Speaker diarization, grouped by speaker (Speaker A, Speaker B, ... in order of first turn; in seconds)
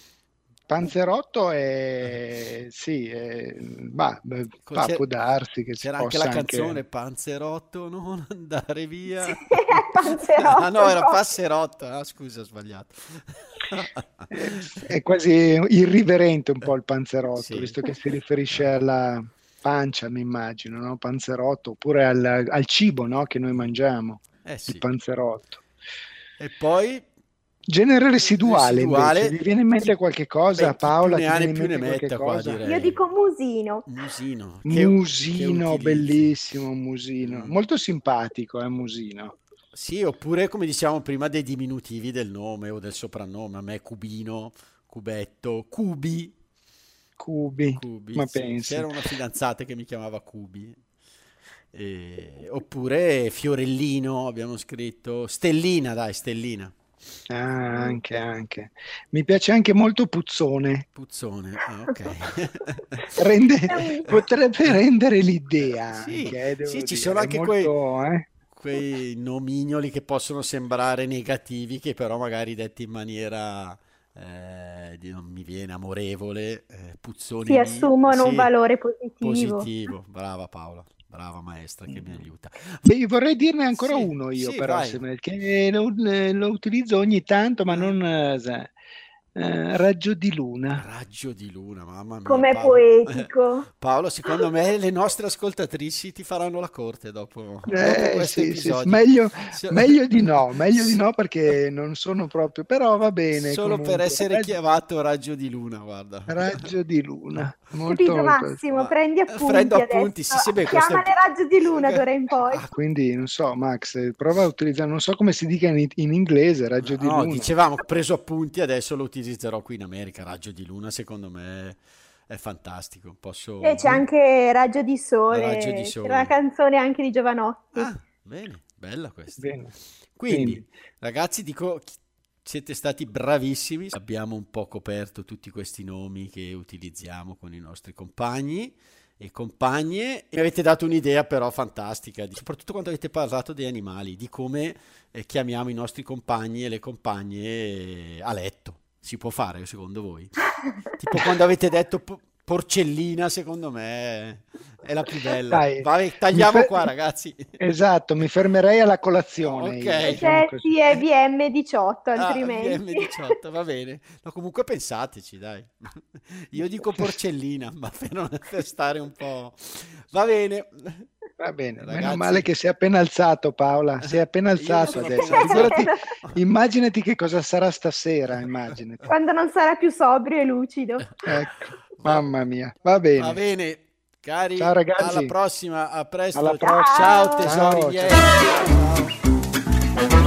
Speaker A: 0.7-6.8, 14.3-25.6, 27.7-32.6, 34.6-39.4, 47.2-48.9, 57.3-60.9, 63.1-68.3, 81.9-82.2, 82.8-88.8, 89.3-90.8, 97.7-104.5, 106.3-108.6, 112.7-117.5, 129.4-129.7, 130.3-130.6, 155.5-156.9, 157.6-160.7, 166.6-167.2, 171.4-179.1, 181.2-183.4, 184.6-185.3, 186.3-188.3
Speaker B: 4.7-5.1, 5.8-14.9, 17.4-17.8, 24.4-24.8, 26.4-27.1, 28.4-29.4, 30.6-33.0, 33.9-36.4, 37.2-37.6, 39.7-46.3, 47.8-50.8, 51.7-56.7, 61.0-63.2, 65.9-67.7, 68.5-78.5, 79.2-82.8, 83.7-85.0, 87.7-88.0, 90.8-101.0, 103.3-106.7, 108.7-112.7, 116.8-124.0, 125.3-126.3, 127.8-129.5, 130.2-150.3, 150.9-157.6, 159.4-160.3, 162.2-171.1, 171.8-172.5, 174.0-176.4, 183.2-189.2
Speaker C: 9.2-11.2, 32.6-33.9, 63.7-64.2, 77.4-79.7, 92.2-93.7, 107.9-112.6, 123.6-127.9, 160.0-163.3, 174.9-176.0, 179.1-181.1, 186.6-187.6